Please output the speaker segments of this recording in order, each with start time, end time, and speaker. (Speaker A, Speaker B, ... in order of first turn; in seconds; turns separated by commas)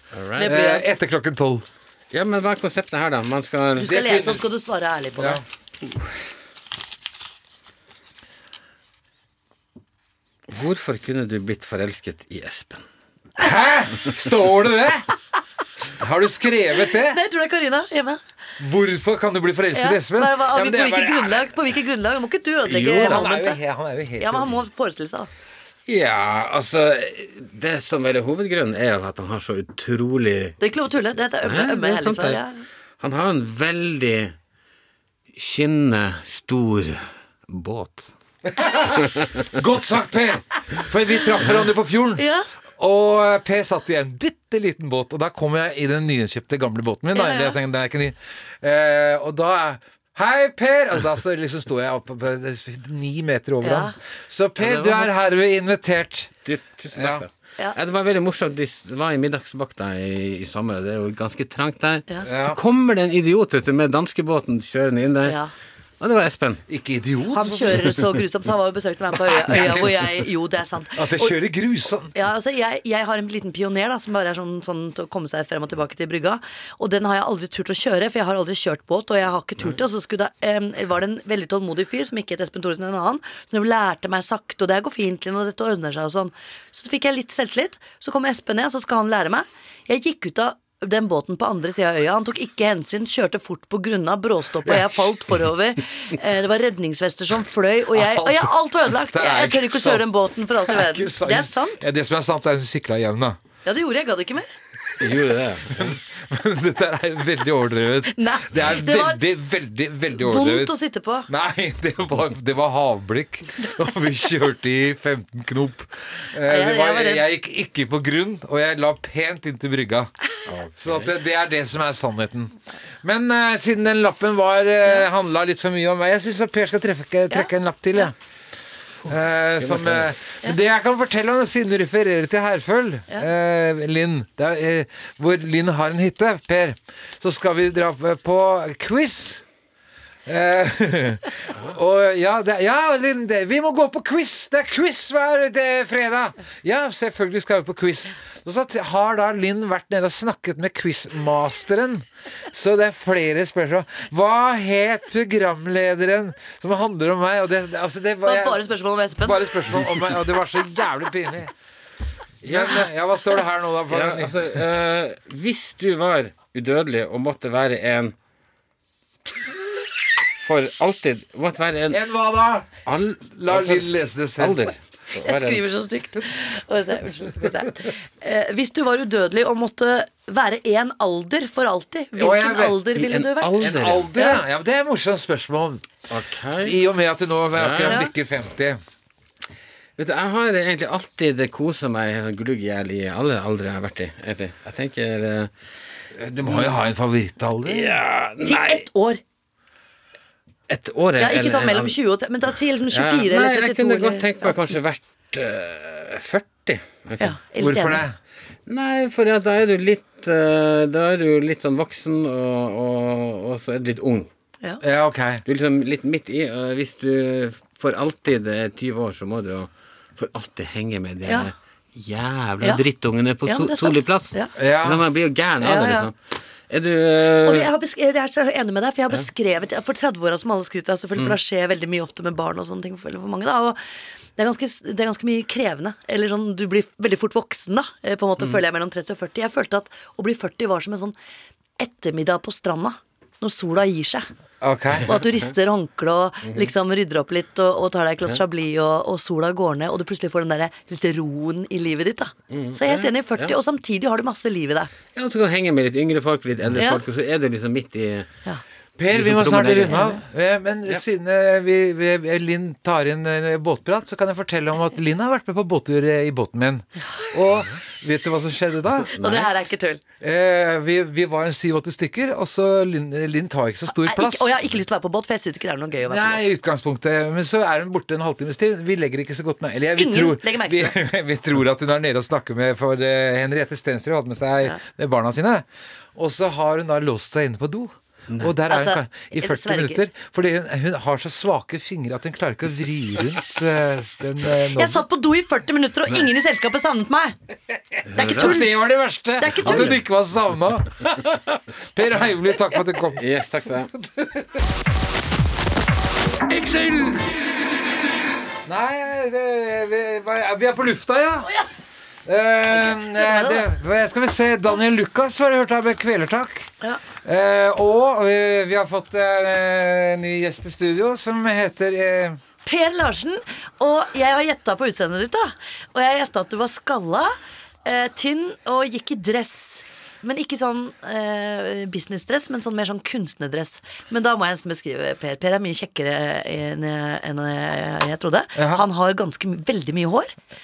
Speaker A: 0.1-0.5, Speaker B: 0.4-0.8, Speaker C: 0.4-1.6, Speaker A: 2.1-4.2, Speaker B: 3.8-5.4, Speaker C: 3.8-4.4, Speaker A: 10.5-12.8, Speaker C: 13.4-15.1, Speaker C: 15.8-17.2, Speaker B: 17.0-18.2, Speaker C: 18.6-21.5, Speaker B: 19.7-23.6, Speaker A: 22.7-23.2, Speaker C: 22.8-24.6, Speaker B: 24.2-25.3, Speaker A: 25.9-30.6, Speaker B: 30.6-32.6, Speaker A: 31.4-32.4, Speaker A: 33.0-34.3, Speaker A: 35.3-38.1, Speaker C: 38.5-42.2, Speaker A: 39.0-39.4, Speaker B: 42.2-42.5, Speaker C: 42.8-56.3, Speaker B: 47.1-47.6, Speaker B: 53.6-53.9, Speaker A: 54.6-55.1, Speaker A: 56.5-65.4, Speaker C: 56.9-57.2, Speaker C: 62.2-62.6, Speaker B: 65.2-65.5, Speaker A: 66.0-66.6, Speaker C: 66.7-68.0, Speaker B: 67.3-71.3, Speaker C: 69.4-70.2, Speaker C: 71.0-72.1, Speaker B: 72.1-101.8, Speaker C: 94.6-95.0, Speaker C: 97.9-100.0, Speaker C: 100.6-103.4, Speaker B: 103.6-104.5, Speaker A: 105.0-106.0, Speaker C: 105.7-110.7, Speaker B: 108.1-109.2, Speaker B: 110.1-111.3, Speaker C: 111.3-120.1, Speaker B: 116.5-117.2, Speaker A: 120.5-121.2, Speaker C: 120.8-128.1, Speaker C: 129.0-139.4, Speaker A: 129.6-130.1, Speaker C: 140.2-158.6, Speaker B: 158.2-159.7, Speaker C: 159.2-161.5, Speaker C: 162.4-164.6, Speaker A: 162.4-162.9, Speaker A: 163.9-168.1, Speaker A: 170.3-172.0, Speaker C: 171.9-172.7, Speaker A: 172.8-175.6, Speaker C: 173.4-174.7, Speaker B: 175.2-184.4, Speaker C: 182.2-182.8, Speaker A: 182.9-184.1, Speaker C: 183.6-185.9, Speaker A: 186.1-186.8, Speaker C: 186.6-188.8, Speaker A: 187.5-188.1, Speaker A: 190.0-195.5, Speaker C: 196.1-198.0, Speaker A: 196.4-196.7, Speaker A: 197.7-198.8, Speaker B: 198.4-199.2, Speaker A: 200.7-201.9, Speaker B: 201.2-204.8, Speaker A: 202.9-207.3, Speaker B: 207.2-208.1, Speaker C: 207.6-208.2, Speaker A: 208.7-214.3, Speaker C: 214.8-215.4, Speaker A: 215.4-226.1, Speaker B: 221.2-221.5, Speaker B: 223.4-224.5, Speaker C: 224.6-225.0, Speaker B: 225.6-226.1, Speaker A: 226.7-227.7, Speaker B: 227.4-233.8, Speaker B: 234.3-241.1, Speaker B: 241.8-244.3, Speaker C: 244.6-245.1, Speaker A: 245.0-245.3, Speaker B: 245.1-254.9, Speaker A: 252.5-253.5, Speaker A: 255.1-258.3, Speaker C: 259.0-269.1, Speaker A: 259.1-260.0, Speaker B: 259.9-260.2, Speaker A: 269.0-269.5, Speaker B: 269.2-270.0, Speaker C: 270.2-274.5, Speaker B: 273.9-276.5, Speaker C: 276.1-295.0, Speaker B: 279.9-281.0, Speaker B: 288.7-290.0, Speaker B: 294.8-297.4, Speaker A: 298.1-298.6, Speaker B: 298.1-298.8, Speaker C: 298.2-303.2, Speaker B: 299.4-300.0, Speaker A: 299.6-300.0, Speaker A: 303.1-303.9, Speaker C: 303.9-304.6, Speaker C: 308.6-311.5, Speaker B: 311.4-311.7, Speaker C: 312.2-316.7, Speaker B: 312.9-313.6, Speaker C: 317.2-322.4, Speaker B: 322.6-340.3, Speaker C: 338.6-338.8